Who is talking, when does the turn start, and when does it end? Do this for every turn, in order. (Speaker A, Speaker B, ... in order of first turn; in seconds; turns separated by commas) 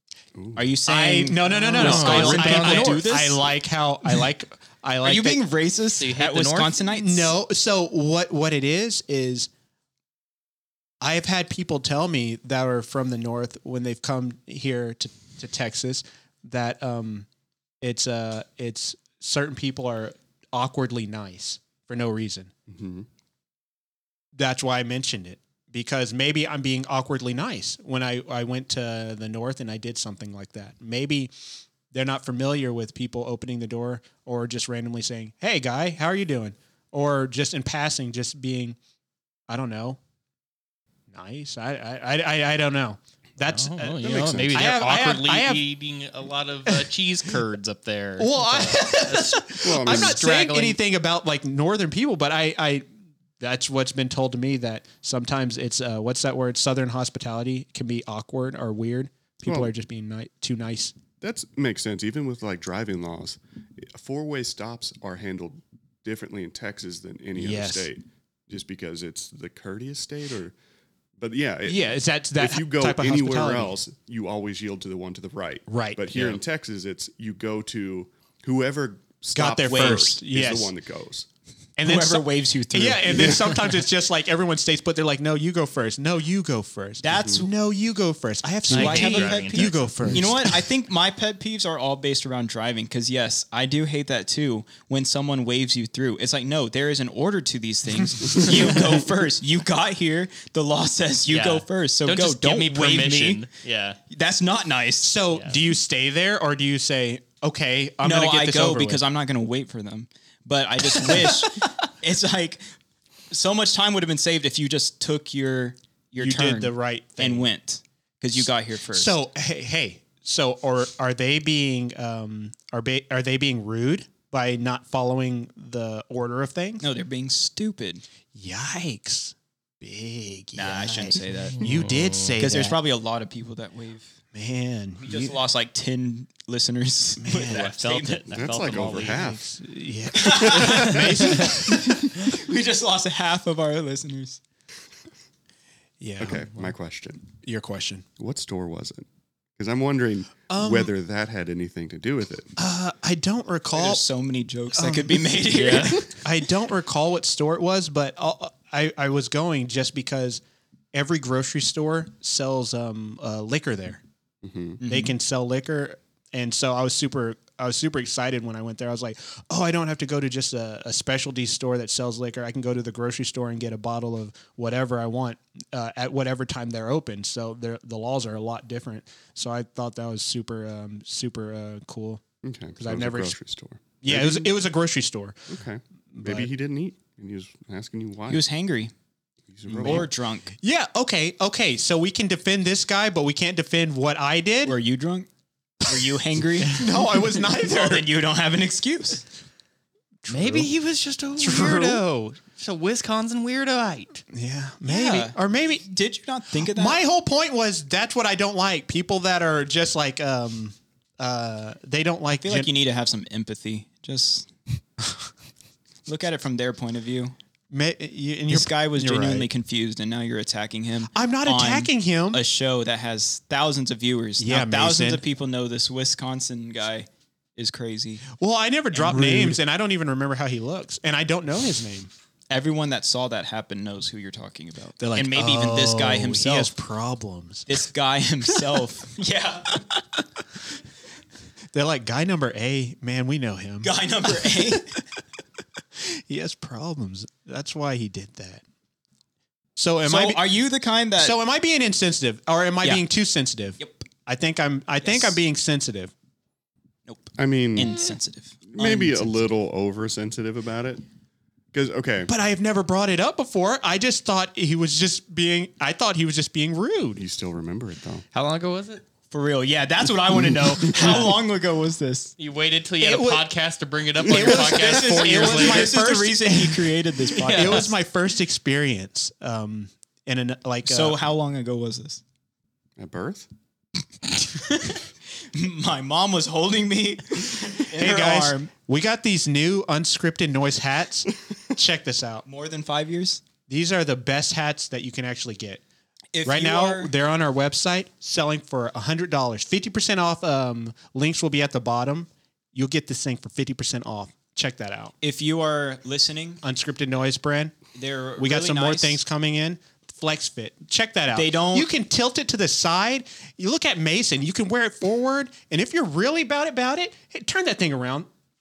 Speaker A: 0.3-0.7, Speaker B: 0.6-3.4, Speaker C: 0.9-5.4, Speaker D: 1.7-3.2, Speaker B: 5.0-7.3, Speaker D: 6.0-6.8, Speaker C: 6.8-9.5, Speaker C: 11.0-17.3, Speaker C: 17.8-22.5, Speaker A: 22.7-23.1, Speaker C: 24.4-31.3, Speaker C: 31.9-38.8, Speaker C: 39.5-40.0, Speaker C: 41.1-45.7, Speaker D: 43.5-50.8, Speaker C: 46.7-47.4, Speaker C: 48.2-52.9, Speaker A: 49.6-50.2, Speaker C: 53.4-61.0, Speaker A: 59.4-59.7, Speaker A: 61.2-70.5, Speaker C: 67.3-67.9, Speaker A: 71.2-81.3, Speaker C: 71.7-73.8, Speaker C: 75.7-76.4, Speaker C: 79.3-80.7, Speaker B: 79.7-80.1, Speaker C: 81.8-90.6, Speaker B: 81.8-83.5, Speaker A: 83.1-83.5, Speaker B: 87.0-87.5, Speaker A: 87.1-87.4, Speaker B: 88.7-103.4, Speaker D: 88.7-89.9, Speaker C: 98.0-98.8, Speaker D: 101.3-104.0, Speaker B: 104.1-105.1, Speaker C: 105.0-109.0, Speaker B: 108.0-112.6, Speaker C: 111.0-111.5, Speaker B: 113.3-119.2, Speaker C: 116.2-117.5, Speaker C: 118.9-126.8, Speaker B: 126.8-128.0, Speaker C: 128.3-132.8, Speaker B: 130.6-131.7, Speaker D: 131.6-132.4, Speaker B: 132.4-134.2, Speaker C: 134.3-135.4, Speaker B: 135.0-138.2, Speaker C: 137.2-137.8, Speaker D: 137.4-139.2, Speaker A: 138.3-139.4, Speaker C: 139.0-142.1, Speaker B: 140.1-144.4, Speaker A: 140.3-141.4, Speaker D: 141.2-141.6, Speaker C: 146.0-146.7, Speaker A: 146.2-147.2, Speaker C: 147.4-148.1, Speaker A: 148.2-152.5, Speaker C: 150.5-150.9, Speaker C: 152.6-154.0, Speaker B: 153.7-156.1, Speaker C: 154.7-155.4, Speaker D: 155.5-156.1, Speaker C: 156.1-160.4, Speaker C: 160.9-164.0, Speaker A: 164.4-164.8, Speaker B: 164.8-165.2, Speaker C: 164.9-182.2, Speaker A: 182.4-184.5, Speaker C: 182.8-183.4, Speaker C: 184.0-185.6, Speaker A: 185.5-188.4, Speaker C: 186.1-186.5, Speaker B: 188.3-188.9, Speaker A: 189.5-190.1, Speaker B: 189.7-190.6, Speaker C: 189.8-190.1, Speaker C: 190.6-194.8, Speaker B: 194.7-195.3, Speaker B: 195.8-196.9, Speaker C: 196.7-198.1, Speaker B: 197.5-199.2, Speaker C: 200.2-200.7, Speaker D: 200.3-204.2, Speaker C: 201.4-202.0, Speaker C: 204.3-205.9, Speaker B: 204.8-207.0, Speaker C: 206.6-212.7, Speaker B: 212.3-214.5, Speaker B: 216.1-217.3, Speaker C: 217.7-219.5, Speaker B: 218.5-228.3, Speaker C: 221.1-222.4, Speaker C: 224.4-225.2, Speaker C: 228.3-232.1, Speaker B: 228.9-229.6, Speaker B: 232.5-236.7, Speaker C: 235.0-237.8, Speaker B: 237.7-239.8, Speaker C: 241.7-245.0, Speaker B: 243.8-244.9, Speaker C: 246.0-248.6, Speaker C: 249.8-250.4, Speaker B: 250.1-251.4, Speaker C: 251.2-256.1, Speaker B: 253.8-254.1, Speaker B: 255.0-255.4, Speaker B: 257.1-259.4, Speaker A: 257.4-258.0, Speaker A: 258.7-261.0, Speaker A: 261.7-262.3, Speaker C: 262.3-267.2, Speaker A: 267.2-268.2, Speaker D: 268.3-269.1, Speaker B: 269.3-272.3, Speaker A: 271.0-271.2, Speaker D: 272.4-275.9, Speaker C: 273.0-273.5, Speaker C: 274.2-281.2, Speaker B: 274.3-277.9, Speaker D: 277.4-277.9, Speaker B: 280.9-282.2, Speaker A: 283.0-283.5, Speaker B: 285.5-288.7, Speaker C: 287.9-292.4, Speaker B: 292.4-293.4, Speaker C: 293.7-295.8, Speaker B: 296.3-297.1, Speaker C: 296.4-305.1, Speaker B: 305.2-306.6, Speaker C: 306.6-307.8, Speaker B: 307.9-309.2, Speaker C: 308.4-318.3, Speaker B: 311.3-311.9